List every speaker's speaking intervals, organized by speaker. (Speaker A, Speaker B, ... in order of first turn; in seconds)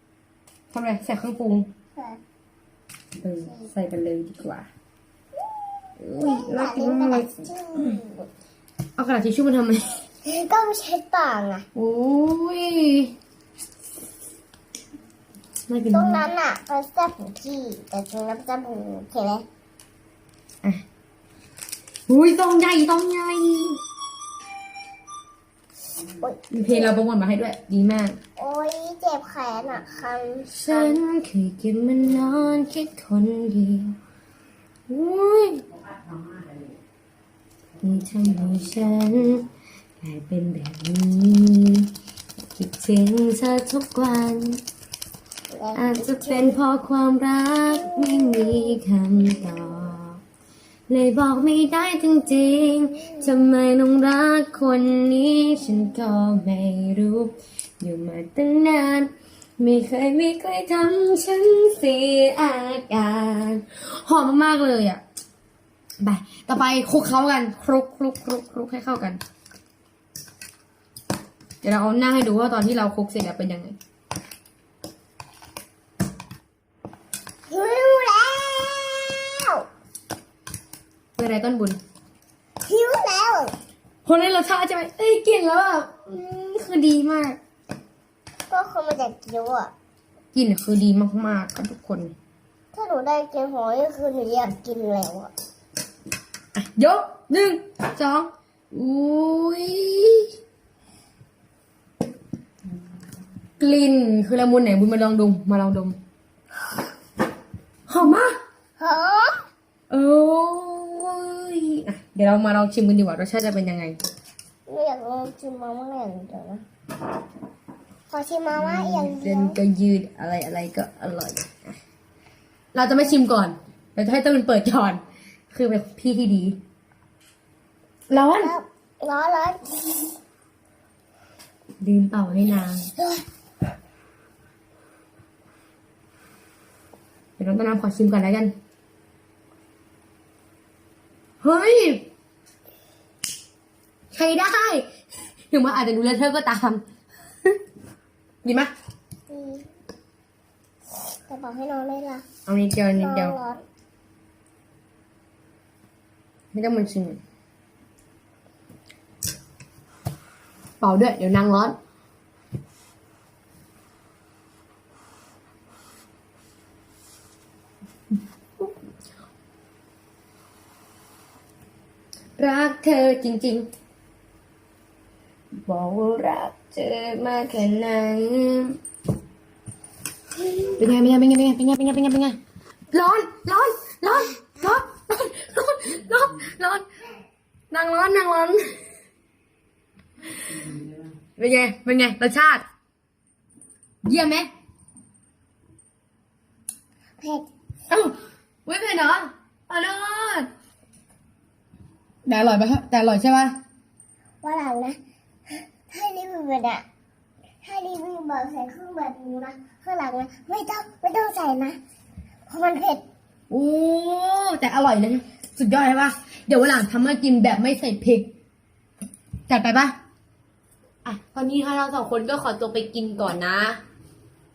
Speaker A: 0.7-1.7, 3.2-4.7, 6.0-8.0, 9.0-9.9, 11.7-13.1, 15.7-16.2, 22.1-23.8, 26.5-28.2, 30.5-33.9, 34.9-35.7, 37.8-39.4, 40.0-41.9, 42.5-44.6, 45.7-50.2, 50.9-65.0, 66.0-69.2, 71.6-73.8, 81.2-81.8, 84.0-87.4, 90.3-92.1, 96.5-100.3, 103.6-106.0, 107.9-108.3, 109.9-114.0, 118.5-121.8, 122.7-126.6, 128.1-128.5, 131.8-132.9, 137.4-138.5, 141.4-142.1, 144.1-144.8, 145.5-146.8, 148.4-148.7, 152.4-153.4, 156.5-157.2, 160.8-161.8, 172.4-173.7, 175.7-178.8, 180.7-182.4, 182.9-186.8, 187.7-188.6, 190.4-192.6, 194.0-194.5, 197.9-198.1, 198.7-200.5, 202.2-203.6, 213.5-218.3, 219.5-219.9, 221.0-223.8
Speaker B: 6.2-8.3, 10.2-11.7, 15.9-19.4, 26.2-26.9, 28.4-31.0, 45.5-46.6, 48.0-48.4, 77.5-79.6, 82.6-83.5, 88.5-89.7, 92.7-95.3, 108.8-109.5, 114.7-116.6, 118.1-119.6, 128.4-130.1, 132.9-133.2, 149.3-149.7, 151.1-152.2, 152.9-153.6, 197.2-197.5, 204.4-205.0, 205.5-206.8, 207.6-211.8, 212.5-213.0